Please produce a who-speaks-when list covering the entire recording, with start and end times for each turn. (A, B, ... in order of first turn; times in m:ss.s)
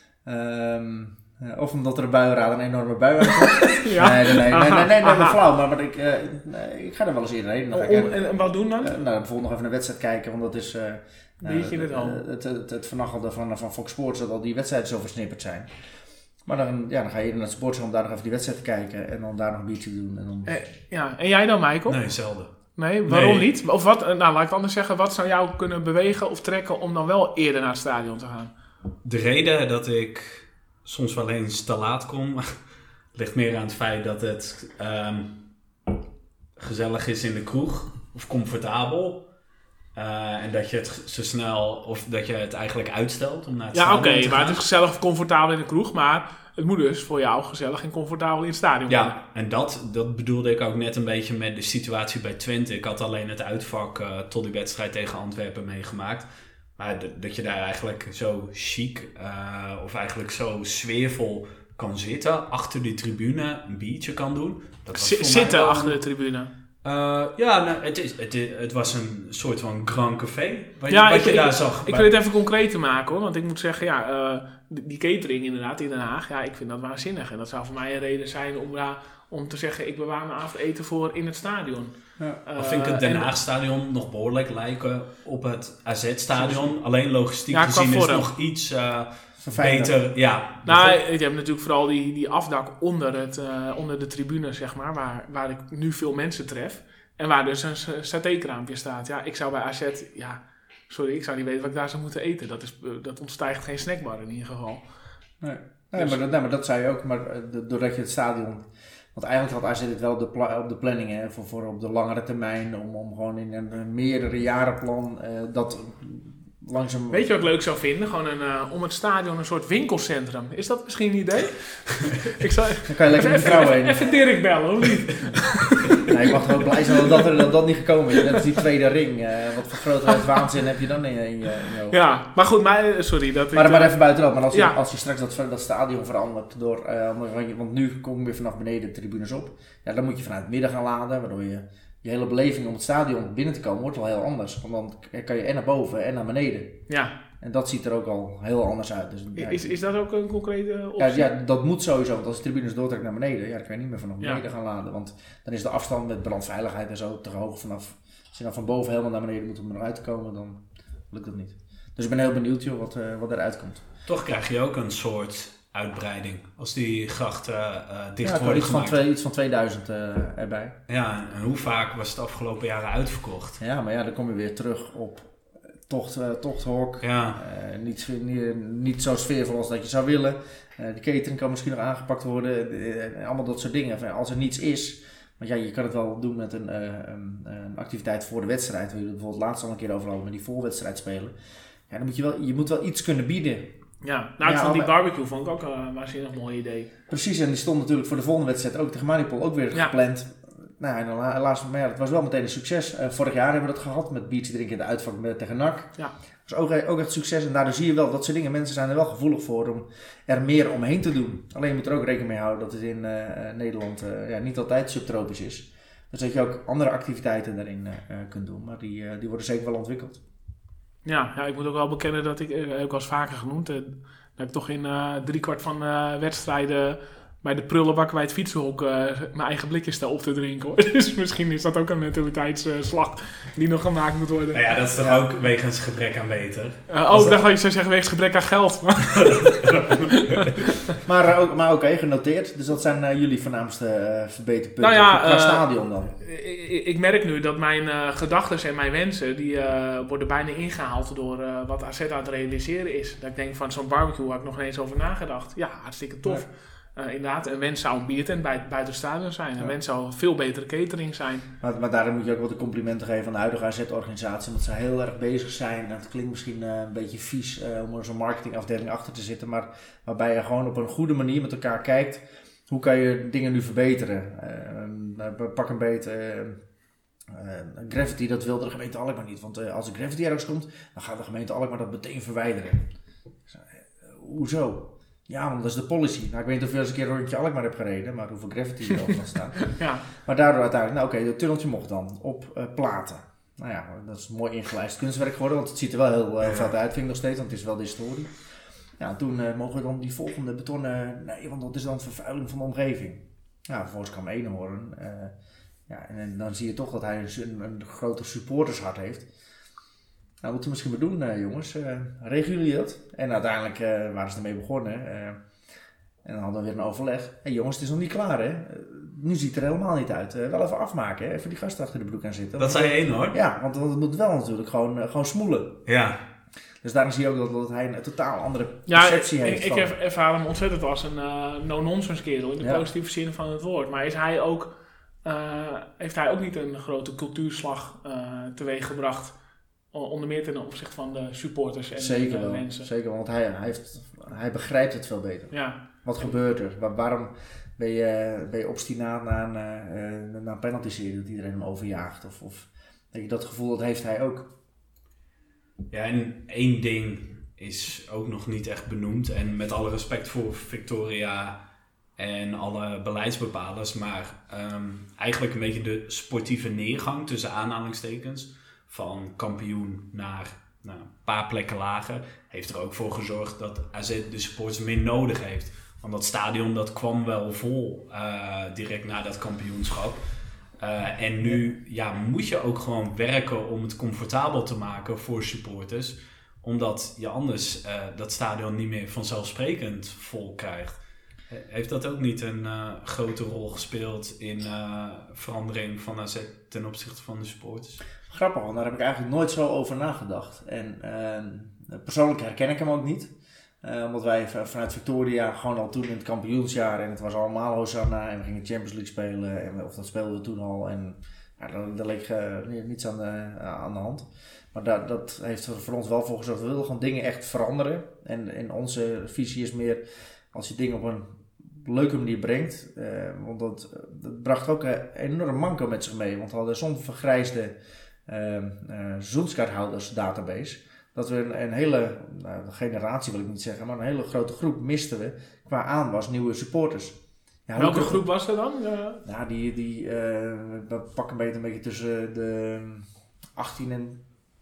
0:00.3-0:08.2 A
0:03.6-0:05.4 B
0:07.7-0:09.0 B
0:08.8-0:15.7 A
0:11.4-0:12.2 B
0:16.4-0:20.6 A
0:20.5-0:28.5 B
0:21.9-0:22.6 C
0:23.1-0:23.5 C
0:29.0-0:32.6 C
0:33.1-0:35.5 C
0:36.6-0:39.3 C
0:40.0-0:44.6 C
0:43.7-0:49.2 B
0:48.9-1:06.0 C
1:05.0-1:06.5 B
1:06.8-1:12.1 C
1:10.9-1:23.3 B
1:22.6-1:31.0 C
1:26.3-1:26.7 A
1:27.5-1:28.3 B
1:29.4-1:30.0 A
1:30.6-1:44.8 B
1:45.4-1:57.3 A
1:57.1-2:06.1 B
2:02.9-2:04.1 A
2:06.1-2:12.0 A
2:06.8-2:07.3 B
2:11.9-2:14.8 B
2:13.5-2:26.8 A
2:26.9-2:27.1 B
2:27.4-2:29.8 A
2:29.4-2:31.3 B
2:31.0-2:43.8 A
2:44.1-2:49.0 C
2:48.2-2:50.8 A
2:50.9-2:53.6 C
2:53.6-2:55.4 A
2:55.9-3:11.3 A
2:57.0-2:57.4 C
3:11.9-3:13.7 A
3:14.0-3:16.9 B
3:14.4-3:14.9 A
3:17.1-3:40.2 A
3:41.0-3:54.7 B
3:54.5-3:57.4 C
3:56.9-4:00.5 B
3:59.2-4:00.7 C
4:01.1-4:06.1 A
4:04.8-4:05.7 B
4:06.2-4:21.5 B
4:21.6-4:36.6 A
4:37.3-4:42.9 A
4:43.5-4:58.3 A
4:49.7-4:50.0 B
4:56.4-4:56.7 C
4:59.0-5:05.4 A
5:05.9-5:09.3 A
5:10.4-5:15.4 A
5:16.2-5:25.8 A
5:22.6-5:23.4 C
5:25.9-5:26.2 C
5:26.8-5:29.9 A
5:28.9-5:34.7 B
5:35.2-5:39.4 B
5:39.9-5:42.9 B
5:42.0-5:54.5 A
5:45.5-5:45.8 B
5:55.9-6:01.6 C
6:02.2-6:20.2 C
6:20.8-6:38.0 C
6:38.3-7:18.2 A
7:17.8-7:19.2 B
7:19.2-7:24.2 A